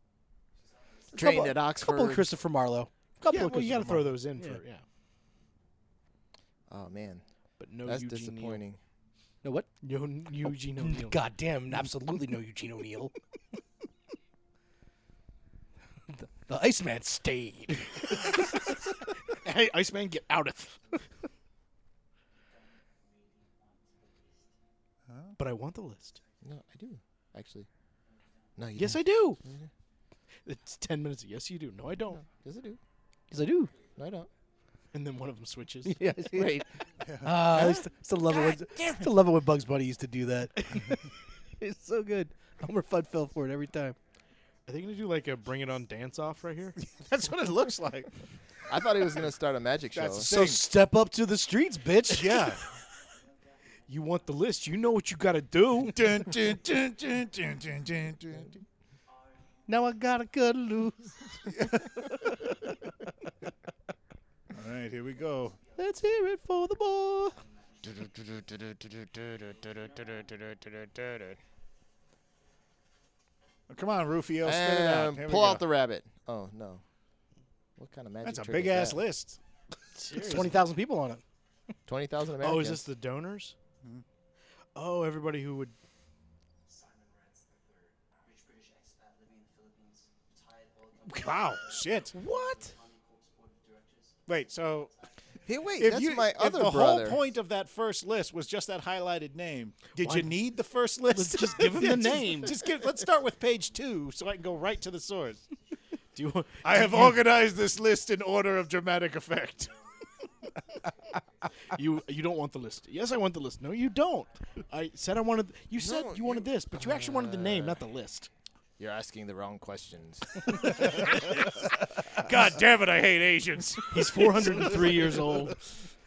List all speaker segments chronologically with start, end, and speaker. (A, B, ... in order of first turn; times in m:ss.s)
0:00.6-0:01.4 A
0:01.1-0:02.3 B
0:01.1-0:04.6 C
0:03.3-0:04.8 D
0:06.7-0:07.2 B
0:07.6-0:08.6 D
0:07.8-0:08.8 B
0:09.4-0:09.8 C
0:09.8-0:11.2 D
0:10.4-0:13.1 C
0:16.1-0:18.6 C
0:19.4-0:21.0 D
0:25.1-0:25.4 E
0:25.4-0:26.2 D
0:26.2-0:26.4 A
0:26.4-0:27.7 B
0:28.6-0:29.7 B
0:28.8-0:29.4 D
0:30.4-0:32.2 D
0:32.2-0:32.8 B
0:33.3-0:33.7 C
0:33.5-0:34.3 A
0:34.0-0:34.3 B
0:34.9-0:36.0 D
0:35.8-0:36.7 C
0:36.3-0:36.7 B
0:37.0-0:37.5 E
0:37.2-0:44.0 C
0:37.5-0:37.8 B
0:38.7-0:39.0 B
0:44.7-0:46.8 D
0:44.8-0:46.8 A
0:46.9-0:48.1 E
0:48.7-0:50.4 B
0:49.9-0:50.7 E
0:50.2-0:52.5 C
0:52.1-0:52.6 E
0:53.9-0:56.0 D
0:55.8-0:58.6 E
0:59.7-1:01.2 C
1:01.5-1:01.8 E
1:04.5-1:05.6 E
1:05.8-1:07.4 C
1:07.8-1:11.4 B
1:13.7-1:15.6 E
1:14.4-1:16.8 B
1:17.8-1:19.0 B
1:18.2-1:19.4 E
1:20.0-1:20.6 D
1:20.1-1:21.2 C
1:21.9-1:22.8 B
1:22.4-1:23.6 D
1:24.8-1:25.8 D
1:26.7-1:28.0 A
1:31.0-1:32.1 E
1:31.5-1:32.2 A
1:32.1-1:32.8 D
1:34.3-1:34.9 E
1:35.4-1:37.2 B
1:35.8-1:45.4 E
1:40.0-1:40.4 D
1:41.1-1:42.6 D
1:46.1-1:47.2 D
1:46.6-1:49.7 E
1:47.2-1:52.4 A
1:51.7-1:58.3 D
1:53.7-1:55.1 A
1:55.8-1:57.8 B
1:58.8-2:00.7 B
2:02.0-2:05.2 E
2:03.9-2:05.6 D